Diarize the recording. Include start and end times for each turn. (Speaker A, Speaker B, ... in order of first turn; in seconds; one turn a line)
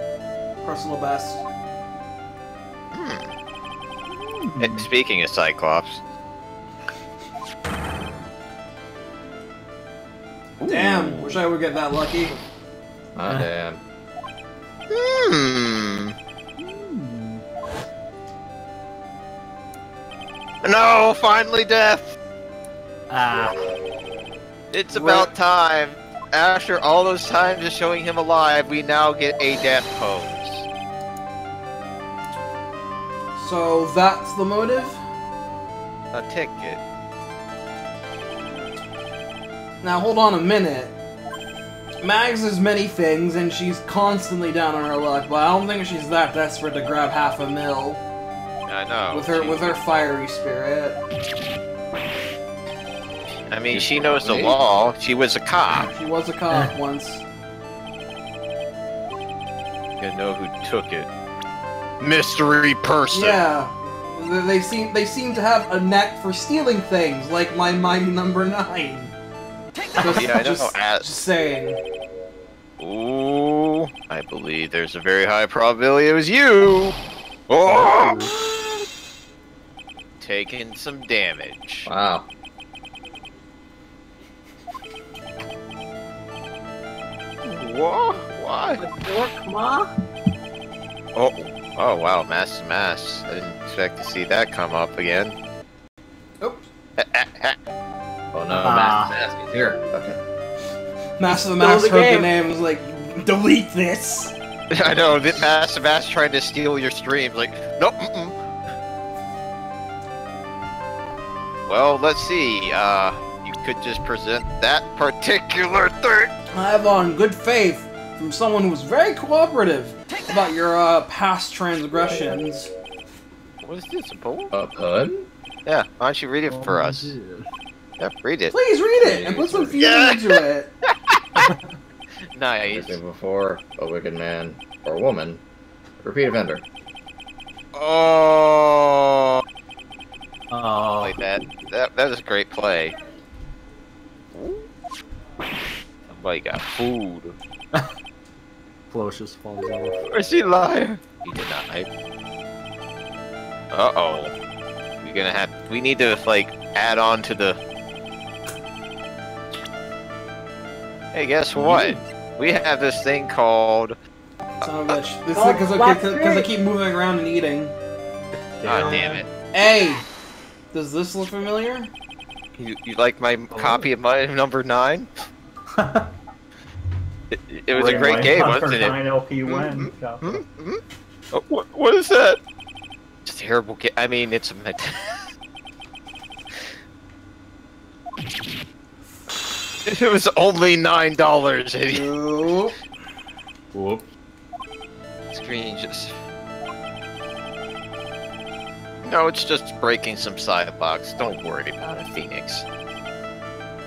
Speaker A: 0.6-1.4
Speaker B: 2.9-3.3
Speaker C: 4.1-4.9
Speaker B: 4.6-6.0
Speaker B: 10.6-11.4
Speaker A: 10.7-12.4
Speaker D: 13.2-13.8
Speaker B: 14.9-16.1
Speaker C: 16.6-17.4
Speaker B: 20.6-22.2
Speaker C: 23.1-23.7
Speaker B: 24.7-30.7
Speaker A: 24.9-25.3
Speaker A: 33.4-35.0
Speaker B: 36.1-36.8
Speaker A: 39.8-40.9
Speaker A: 42.0-48.0
Speaker B: 48.7-49.8
Speaker A: 49.1-51.0
Speaker B: 53.5-55.9
Speaker D: 53.7-54.6
Speaker A: 55.9-57.2
Speaker B: 60.0-61.1
Speaker B: 62.0-63.4
Speaker A: 63.1-69.1
Speaker A: 70.0-71.8
Speaker B: 70.1-71.0
Speaker B: 72.8-77.0
Speaker B: 77.5-78.3
Speaker C: 77.7-78.8
Speaker B: 80.2-81.9
Speaker D: 81.9-82.3
Speaker B: 87.4-88.8
Speaker E: 88.8-89.9
Speaker B: 91.2-95.4
Speaker A: 96.4-96.7
Speaker B: 97.0-97.6
Speaker D: 98.3-100.2
Speaker C: 98.5-99.2
Speaker A: 101.2-104.3
Speaker E: 101.3-102.3
Speaker B: 104.7-108.4
Speaker B: 111.7-116.3
Speaker A: 116.5-122.7
Speaker B: 123.6-124.5
Speaker D: 124.5-125.3
Speaker B: 125.7-127.2
Speaker C: 126.5-127.5
Speaker B: 128.0-128.5
Speaker A: 128.5-130.7
Speaker D: 129.0-129.8
Speaker B: 129.8-131.5
Speaker C: 131.4-131.7
Speaker B: 132.3-133.0
Speaker D: 132.7-135.4
Speaker D: 136.0-136.6
Speaker B: 137.7-139.4
Speaker C: 140.5-141.3
Speaker B: 141.0-143.0
Speaker B: 144.3-144.7
Speaker B: 146.1-147.4
Speaker C: 148.9-150.0
Speaker B: 150.1-151.9
Speaker B: 153.7-154.3
Speaker B: 155.0-157.6
Speaker B: 161.1-164.0
Speaker C: 161.7-162.0
Speaker A: 164.6-167.7
Speaker E: 165.3-166.5
Speaker C: 168.6-169.2
Speaker B: 168.7-169.3
Speaker A: 169.5-170.1
Speaker A: 170.7-171.9
Speaker B: 172.6-175.1
Speaker C: 173.5-173.9
Speaker C: 175.7-176.1
Speaker B: 177.3-178.9
Speaker C: 177.7-180.4
Speaker B: 179.5-180.8
Speaker B: 181.3-182.4
Speaker B: 183.2-185.3
Speaker B: 189.9-192.1
Speaker A: 191.9-192.8
Speaker C: 193.7-194.0
Speaker B: 195.3-196.2
Speaker B: 199.0-202.7